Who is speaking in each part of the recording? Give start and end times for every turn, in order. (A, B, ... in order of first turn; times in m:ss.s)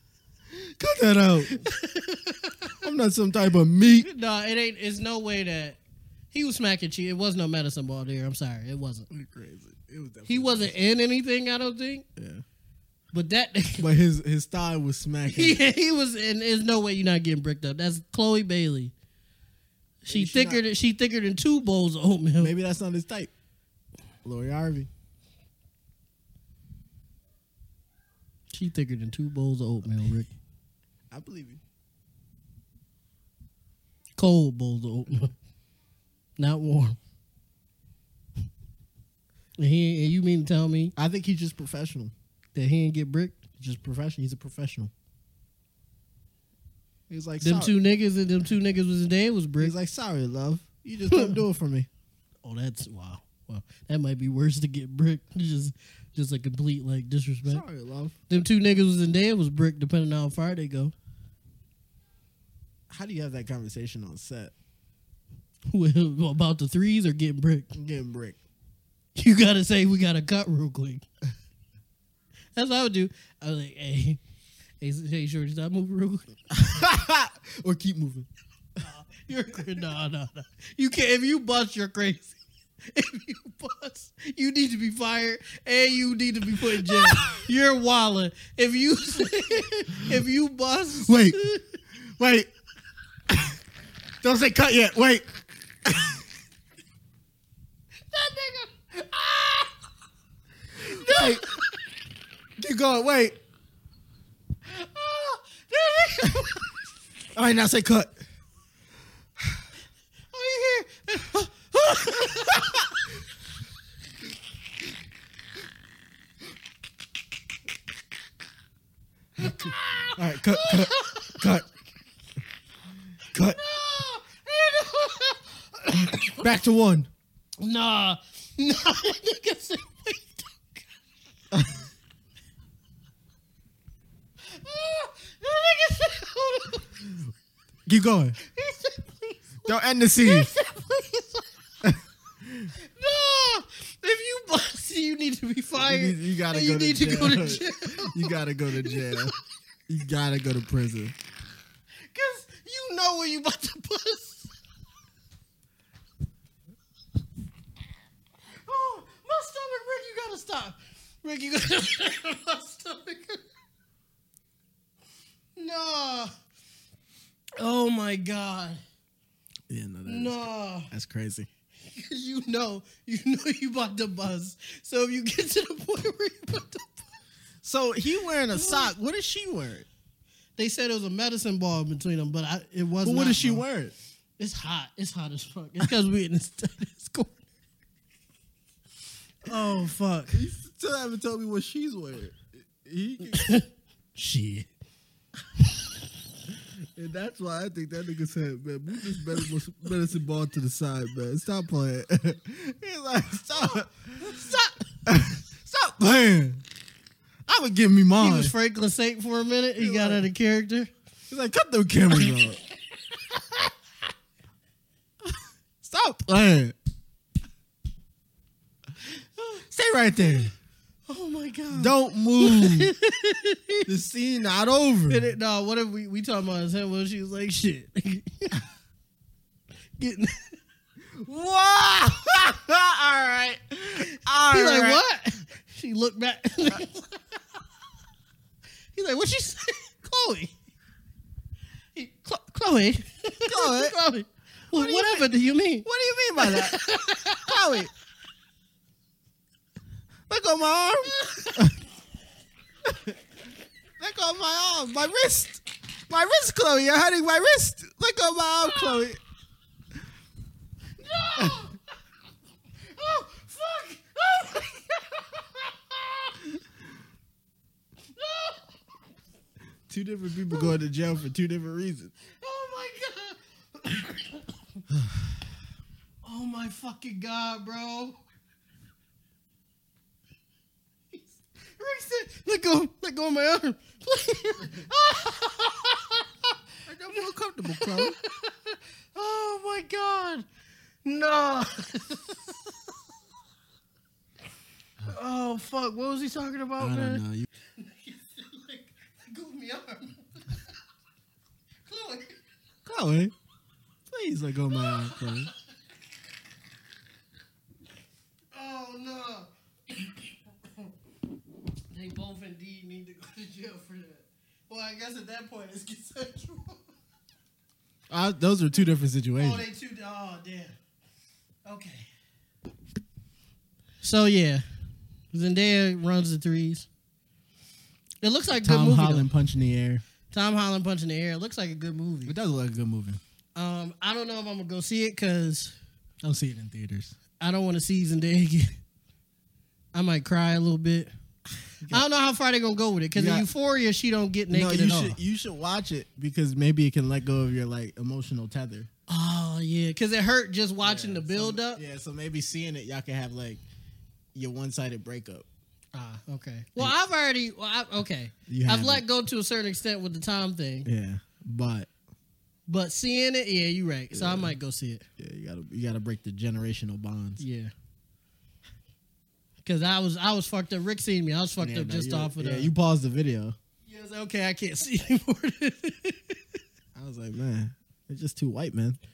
0:00.5-0:01.6 A
0:01.6-0:02.8 B
0:02.8-0:04.1 A
0:03.9-0:05.8 B
0:06.3-0:09.1 B
0:09.1-0:10.7 A
0:10.3-0:12.0 B
0:12.2-0:12.4 A
0:13.1-0:13.9 B
0:13.8-0:15.6 A
0:15.3-0:18.9 B
0:20.0-0:22.5 B
0:20.1-0:20.6 A
0:22.4-0:23.3 A
0:24.2-0:24.9 A
0:28.5-0:30.3 B
0:31.1-0:31.6 A
0:34.2-0:35.3 B
0:36.4-0:37.0 B
0:39.6-0:40.9 B
0:41.0-0:42.1 A
0:42.5-0:43.5 B
0:43.6-0:44.9 A
0:47.1-0:47.7 A
0:47.4-0:49.7 B
0:49.6-0:51.9 A
0:51.1-0:51.4 B
0:52.4-0:57.6 B
0:57.4-0:58.2 A
0:58.3-1:00.9 B
1:02.9-1:04.5 A
1:05.7-1:07.7 B
1:07.7-1:08.4 A
1:09.2-1:11.0 B
1:12.6-1:14.2 B
1:14.8-1:16.3 B
1:16.5-1:18.3 A
1:18.8-1:22.4 B
1:22.9-1:31.8 B
1:26.8-1:27.4 A
1:30.9-1:31.4 A
1:32.0-1:32.5 A
1:33.3-1:33.6 A
1:34.2-1:36.2 A
1:38.1-1:39.7 B
1:40.8-1:41.4 A
1:40.8-1:41.8 B
1:42.6-1:43.4 A
1:44.7-1:46.8 B
1:47.3-1:48.2 A
1:50.3-1:52.9 B
1:52.3-1:52.6 A
1:59.4-2:01.4 B
1:59.4-2:01.7 A
2:03.3-2:03.6 A
2:03.5-2:06.5 B
2:06.4-2:07.1 A
2:07.6-2:10.9 B
2:11.5-2:11.8 A
2:14.5-2:17.0 B
2:17.8-2:18.4 A
2:18.4-2:21.5 B
2:19.6-2:20.5 A
2:21.8-2:22.7 A
2:22.8-2:29.3 B
2:25.7-2:29.3 A
2:29.9-2:31.2 A
2:32.1-2:34.5 B
2:38.6-2:43.4 B
2:45.6-2:46.3 B
2:47.6-2:48.8 B
2:49.7-2:51.5 A
2:50.0-2:50.9 B
2:51.8-2:57.1 B
2:57.6-2:59.9 A
2:58.5-2:58.9 B
3:00.6-3:03.6 B
3:03.0-3:03.9 A
3:04.4-3:07.4 B
3:09.4-3:10.4 B
3:10.3-3:13.5 A
3:13.3-3:14.7 B
3:17.0-3:26.6 A
3:23.6-3:24.8 B
3:27.5-3:28.5 A
3:28.2-3:30.9 B
3:29.8-3:30.3 A
3:31.3-3:32.6 A
3:32.1-3:32.4 B
3:33.0-3:33.7 B
3:35.2-3:36.8 A
3:39.5-3:40.5 A
3:41.1-3:43.9 B
3:41.7-3:42.9 A
3:43.8-3:45.3 A
3:45.1-3:48.6 B
3:50.0-3:50.5 B
3:51.1-3:55.0 A
3:54.5-3:57.4 B
3:58.9-4:00.5 B
4:01.9-4:05.8 B
4:03.5-4:03.9 A
4:04.7-4:05.3 A
4:05.8-4:06.8 A
4:06.4-4:07.8 B
4:07.3-4:07.9 A
4:10.3-4:11.8 A
4:11.0-4:11.7 B
4:12.8-4:13.2 A
4:14.0-4:19.2 A
4:18.7-4:18.9 B
4:21.0-4:21.8 B
4:22.8-4:26.4 B
4:28.1-4:28.7 B
4:29.9-4:32.1 A
4:32.3-4:34.5 B
4:36.2-4:38.2 B
4:41.1-4:46.5 B
4:46.8-4:48.2 A
4:47.7-4:50.4 B
4:51.0-4:52.8 B
4:55.0-4:57.2 B
4:56.8-4:57.5 A
4:57.8-5:00.6 B
5:01.8-5:02.4 B
5:02.8-5:03.3 A
5:04.1-5:05.5 A
5:04.7-5:05.5 B
5:08.5-5:10.9 B
5:11.9-5:16.8 B
5:18.1-5:19.6 A
5:19.4-5:20.8 B
5:21.6-5:22.1 B
5:24.0-5:24.6 B
5:25.3-5:26.9 B
5:28.2-5:29.3 B
5:28.6-5:30.0 A
5:30.3-5:32.3 B
5:32.2-5:33.2 A
5:33.6-5:35.7 B
5:36.2-5:37.1 A
5:37.4-5:38.8 B
5:39.9-5:41.1 B
5:41.9-5:45.2 B
5:43.1-5:43.5 A
5:44.5-5:48.9 A
5:49.1-5:51.8 B
5:50.8-5:53.6 A
5:54.3-5:55.4 A
5:55.9-6:00.9 B
5:58.5-5:59.0 A
6:00.8-6:01.9 A
6:02.7-6:05.0 B
6:04.1-6:04.6 A
6:05.2-6:07.4 A
6:07.4-6:07.7 B
6:09.6-6:12.7 B
6:11.6-6:13.6 A
6:13.8-6:16.6 B
6:16.9-6:19.0 A